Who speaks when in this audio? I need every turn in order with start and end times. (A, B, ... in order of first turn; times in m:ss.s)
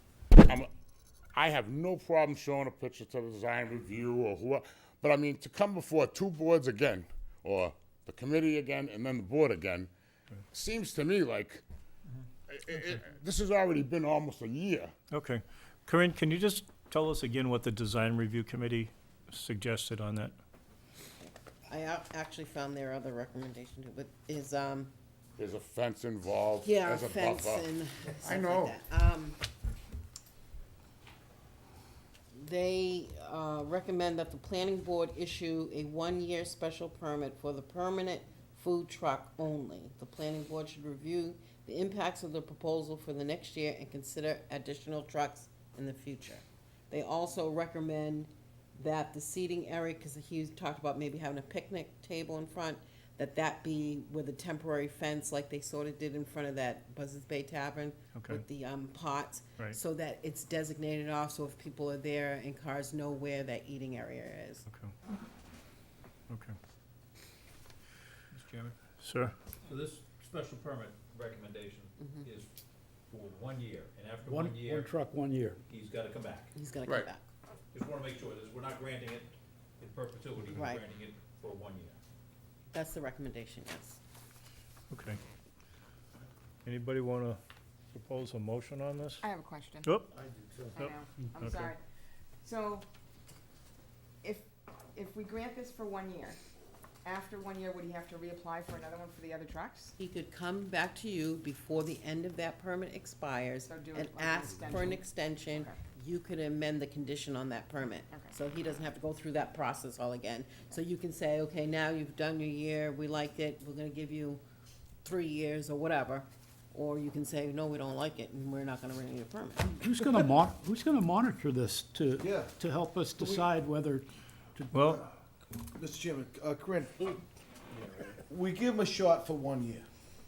0:00.4-0:00.7 A
0:01.3-0:09.9 A
0:10.5-0:11.6 A
0:12.5-0:14.9 A
0:15.1-0:20.4 B
0:21.2-0:24.9 C
0:25.4-0:27.7 A
0:26.6-0:29.4 C
0:28.2-0:28.8 A
0:32.3-1:04.6 C
0:58.1-0:58.4 B
1:04.7-1:04.9 B
1:06.3-1:06.6 B
1:08.3-1:08.8 D
1:09.0-1:09.4 B
1:09.6-1:12.5 D
1:13.1-1:15.0 D
1:14.2-1:15.6 E
1:15.7-1:16.5 D
1:16.5-1:17.2 C
1:17.7-1:22.0 D
1:20.5-1:20.8 C
1:22.7-1:24.0 C
1:24.9-1:25.2 B
1:26.6-1:27.4 B
1:27.9-1:29.2 B
1:29.2-1:29.9 F
1:30.8-1:31.8 F
1:30.8-1:31.7 B
1:32.4-1:32.8 F
1:34.2-1:36.4 F
1:37.0-1:39.9 F
1:40.0-1:54.4 C
1:43.7-1:45.8 F
1:55.0-1:59.8 C
1:59.8-2:04.7 E
2:02.2-2:02.6 G
2:03.2-2:03.5 G
2:04.7-2:05.0 B
2:05.7-2:07.2 G
2:07.8-2:09.8 G